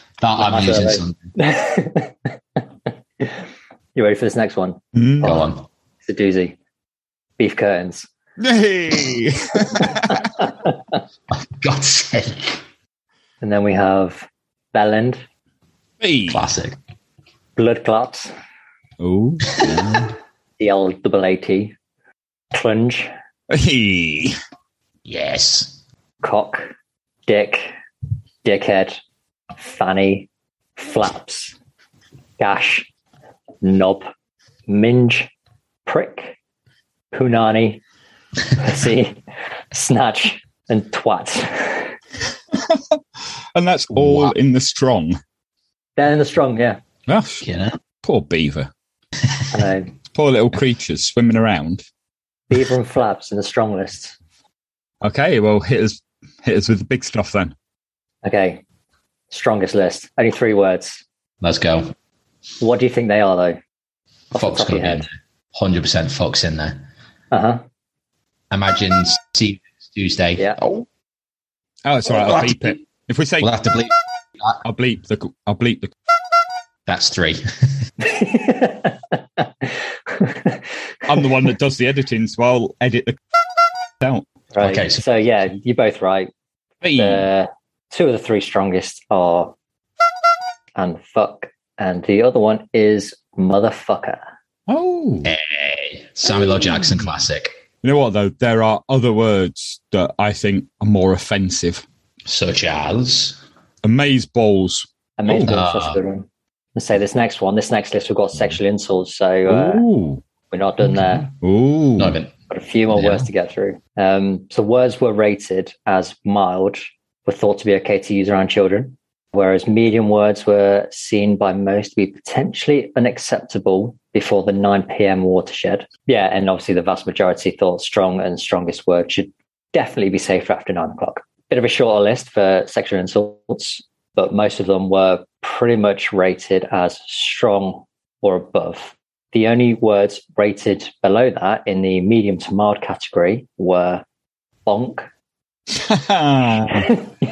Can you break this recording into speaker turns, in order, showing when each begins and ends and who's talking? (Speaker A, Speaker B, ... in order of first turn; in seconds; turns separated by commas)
Speaker A: 0.2-1.3, Speaker B: 0.4-2.6, Speaker B: 4.0-5.4, Speaker C: 5.0-5.4, Speaker A: 5.2-5.7, Speaker B: 6.0-6.6, Speaker B: 7.4-8.1, Speaker C: 8.4-10.2, Speaker A: 11.3-12.6, Speaker B: 13.4-15.2, Speaker C: 16.0-16.4, Speaker A: 16.3-16.8, Speaker B: 17.6-18.3, Speaker C: 19.0-20.1, Speaker B: 20.6-21.8, Speaker B: 22.5-23.1, Speaker C: 23.5-24.4, Speaker A: 25.1-25.8, Speaker B: 26.2-26.7, Speaker B: 27.3-27.7, Speaker B: 28.4-29.0, Speaker B: 29.6-31.6, Speaker B: 32.4-32.9, Speaker B: 33.6-34.1, Speaker B: 34.7-35.3, Speaker B: 35.9-36.4, Speaker B: 37.1-37.8, Speaker B: 38.6-39.2, Speaker B: 39.7-41.9, Speaker C: 43.5-45.2, Speaker A: 43.9-44.4, Speaker B: 46.0-46.8, Speaker C: 47.1-47.5, Speaker A: 47.4-47.8, Speaker C: 48.0-48.7, Speaker B: 49.5-49.9, Speaker C: 50.1-51.9, Speaker B: 52.5-54.1, Speaker C: 55.0-57.5, Speaker B: 58.2-58.6, Speaker B: 59.3-61.0, Speaker A: 61.4-61.9, Speaker B: 62.6-63.6, Speaker B: 64.3-65.1, Speaker A: 64.3-66.9, Speaker B: 67.3-67.6, Speaker A: 68.5-70.9, Speaker C: 71.8-73.5, Speaker A: 72.0-72.8, Speaker A: 73.4-74.6, Speaker C: 74.6-75.9, Speaker A: 76.9-77.4, Speaker B: 78.0-80.6, Speaker C: 81.1-83.2, Speaker C: 84.0-84.3, Speaker B: 84.5-86.3, Speaker A: 84.6-85.2, Speaker C: 86.8-87.2, Speaker B: 87.0-89.5, Speaker B: 90.8-94.2, Speaker C: 94.7-95.3, Speaker A: 95.2-97.5, Speaker C: 97.8-101.8, Speaker A: 102.3-103.4, Speaker C: 103.8-105.5, Speaker B: 105.2-109.8, Speaker A: 105.4-106.0, Speaker C: 109.5-110.2, Speaker B: 110.5-111.3, Speaker C: 111.4-112.2, Speaker A: 112.0-112.3, Speaker B: 112.5-144.0, Speaker A: 112.9-113.3, Speaker B: 144.7-145.1, Speaker C: 145.7-147.0